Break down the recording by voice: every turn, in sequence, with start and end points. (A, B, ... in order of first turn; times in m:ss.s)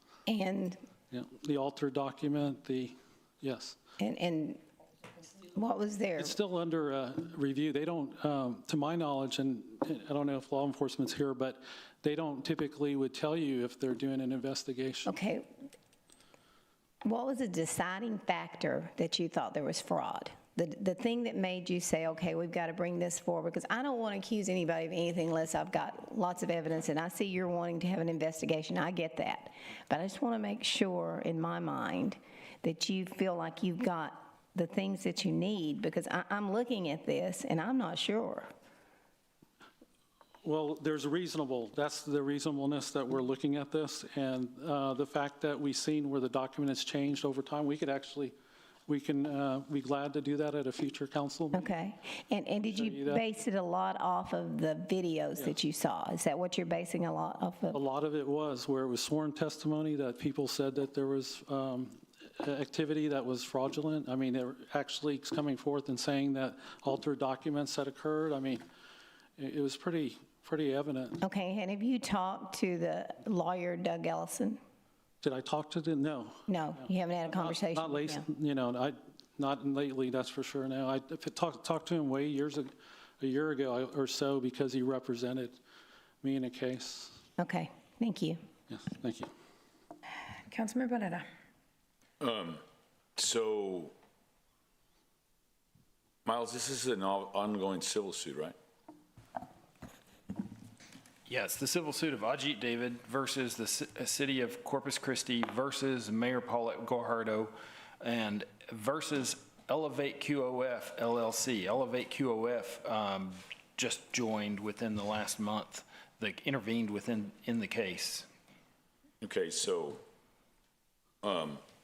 0:00.3-0:00.8 A
0:01.1-0:03.8 B
0:04.0-0:04.6 A
0:05.5-0:06.4 A
0:06.2-0:15.1 B
0:15.1-0:15.5 A
0:17.0-0:38.5 A
0:40.4-0:48.3 B
0:48.9-0:51.7 B
0:51.5-0:57.8 A
0:52.7-0:53.2 B
0:57.7-1:08.6 B
1:09.4-1:11.2 B
1:11.2-1:14.6 A
1:15.2-1:16.4 B
1:16.5-1:18.3 A
1:17.3-1:25.6 B
1:26.2-1:27.2 B
1:27.4-1:28.4 A
1:28.7-1:29.3 B
1:30.5-1:31.2 A
1:32.2-1:32.6 C
1:33.2-1:33.9 C
1:36.2-1:38.6 C
1:41.3-1:58.3 D
1:59.2-2:00.0 C
2:01.2-2:01.6 C